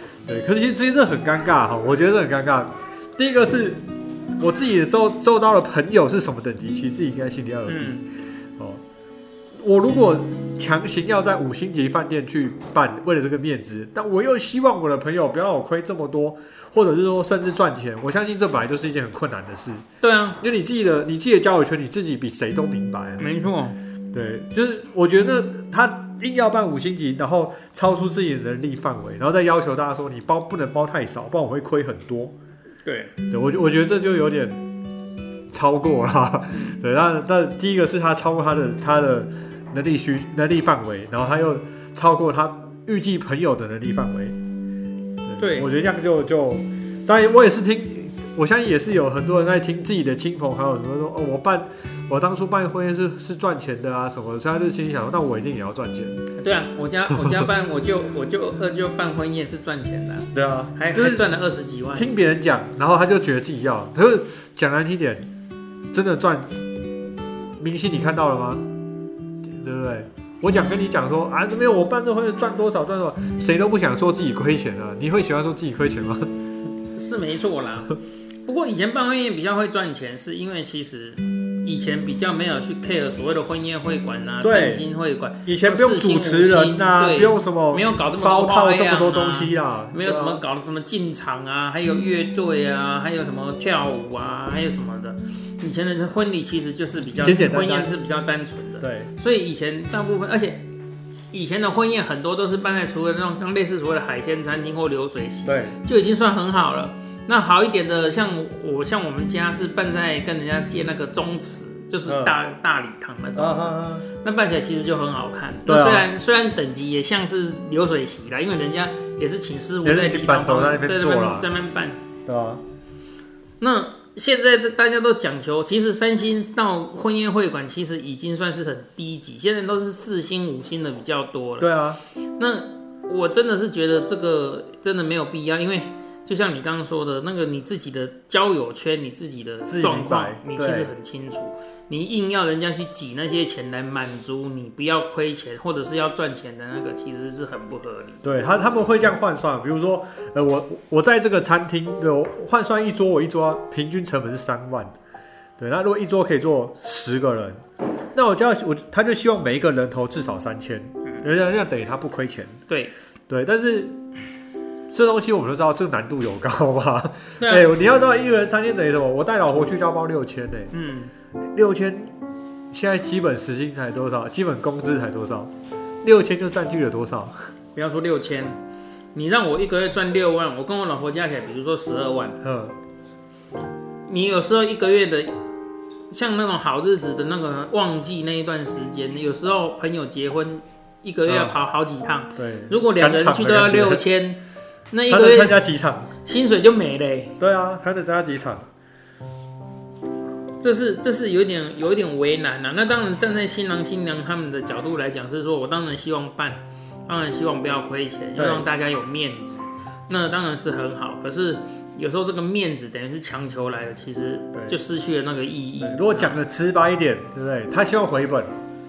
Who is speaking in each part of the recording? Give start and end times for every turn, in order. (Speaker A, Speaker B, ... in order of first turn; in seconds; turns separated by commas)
Speaker A: 0.3-3.8, Speaker A: 4.4-8.0, Speaker B: 7.7-8.0, Speaker A: 9.6-19.8, Speaker B: 20.0-20.4, Speaker A: 20.4-23.3, Speaker B: 23.2-23.8, Speaker A: 24.1-32.3, Speaker B: 32.8-33.1, Speaker A: 33.3-34.6, Speaker A: 35.5-44.4, Speaker A: 45.2-56.3, Speaker B: 45.4-45.7, Speaker B: 56.4-62.1, Speaker A: 60.3-61.2, Speaker A: 61.9-65.3, Speaker A: 65.9-66.5, Speaker A: 67.6-68.6, Speaker A: 69.5-76.3, Speaker B: 76.9-100.6, Speaker A: 84.4-84.8, Speaker A: 85.4-90.4, Speaker A: 97.1-97.9, Speaker A: 98.8-99.1, Speaker B: 101.3-122.0, Speaker A: 105.5-105.8, Speaker A: 112.0-112.4, Speaker A: 113.3-114.1, Speaker A: 115.7-116.1, Speaker A: 119.8-121.5, Speaker A: 122.2-122.6, Speaker B: 123.6-131.7, Speaker A: 131.6-132.0, Speaker B: 132.4-148.2, Speaker A: 139.7-140.9, Speaker A: 148.2-154.9, Speaker A: 155.6-157.6, Speaker A: 158.1-162.6, Speaker A: 163.3-163.9, Speaker A: 164.9-170.7, Speaker B: 167.4-167.7, Speaker B: 170.7-171.1, Speaker A: 171.5-172.1, Speaker A: 172.7-175.5, Speaker A: 176.0-177.5, Speaker B: 177.7-178.6, Speaker B: 179.1-182.4, Speaker A: 182.4-182.8, Speaker B: 184.1-185.4, Speaker B: 186.1-195.6, Speaker A: 191.3-191.5, Speaker A: 192.3-194.0, Speaker A: 195.1-196.1, Speaker B: 196.2-197.4, Speaker A: 197.4-198.7, Speaker B: 200.6-216.4, Speaker A: 208.3-208.7, Speaker A: 215.8-218.6